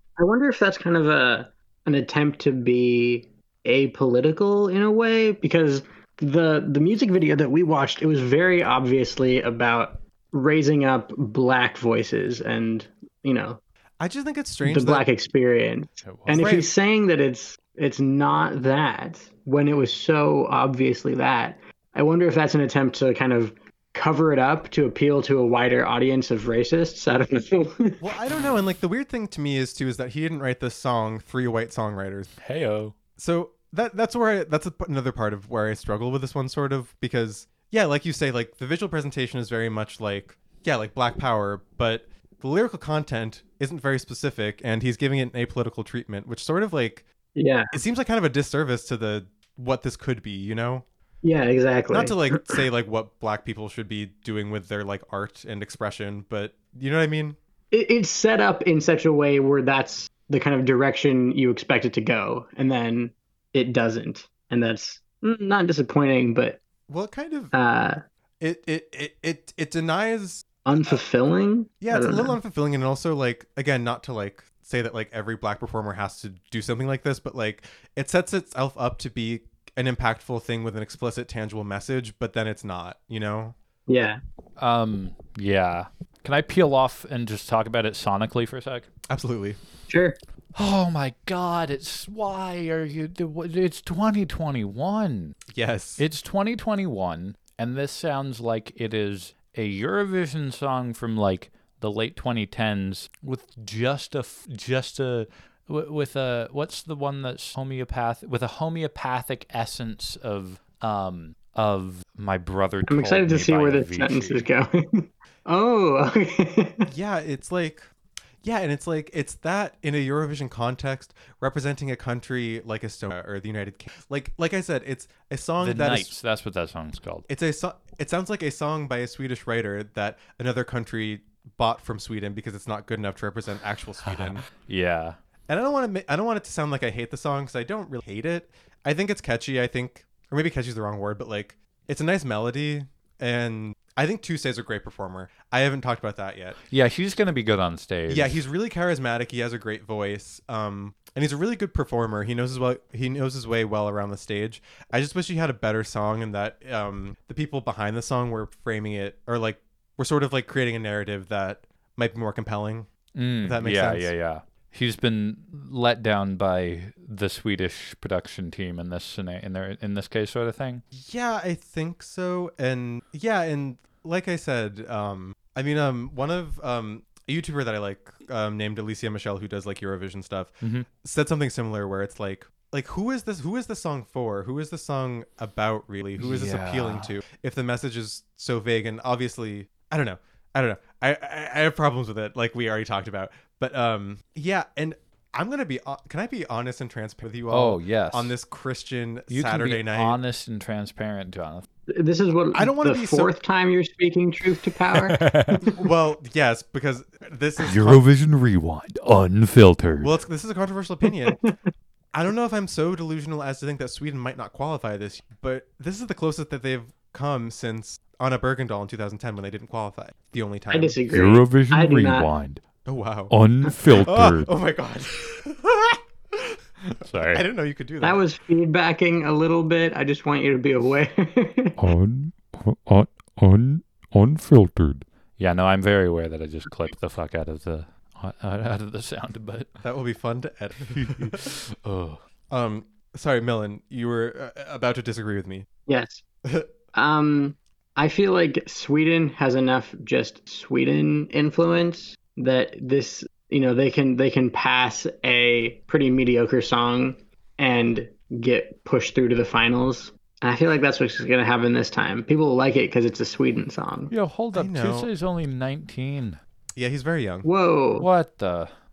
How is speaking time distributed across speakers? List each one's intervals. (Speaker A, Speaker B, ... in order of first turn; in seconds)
Speaker A: 0.2-13.6, 14.6-28.0, 47.4-47.8, 51.2-52.6, 57.7-66.6, 67.5-68.0, 70.6-72.4, 83.9-84.2, 89.9-90.2, 112.9-116.9, 201.9-205.2, 211.3-211.5, 220.7-222.3, 228.0-231.8, 245.9-246.2, 246.9-264.1, 267.4-268.1
Speaker B: 14.0-15.1, 16.3-16.7, 28.0-32.3, 33.2-47.0, 47.7-50.8, 51.9-57.4, 66.9-67.5, 68.4-71.0, 71.8-83.5, 89.1-89.6, 95.5-96.0, 116.9-117.9, 118.4-126.1, 127.3-134.5, 135.5-146.6, 148.1-162.9, 163.4-164.1, 170.9-200.2, 202.5-203.3, 205.7-208.0, 209.9-211.4, 212.1-221.0, 222.8-223.3, 223.9-228.2, 239.8-241.4, 242.5-245.7, 264.5-265.1, 266.8-267.5
Speaker C: 16.0-16.4, 32.4-32.9, 84.6-88.9, 90.5-95.4, 96.0-114.5, 125.6-127.3, 134.1-135.2, 146.7-148.4, 163.1-170.8, 180.6-180.9, 186.2-187.1, 197.5-198.3, 199.3-201.7, 204.9-205.6, 207.6-210.1, 221.1-222.6, 223.3-224.5, 227.0-227.4, 231.8-239.7, 240.9-242.2, 264.1-266.4, 268.0-268.7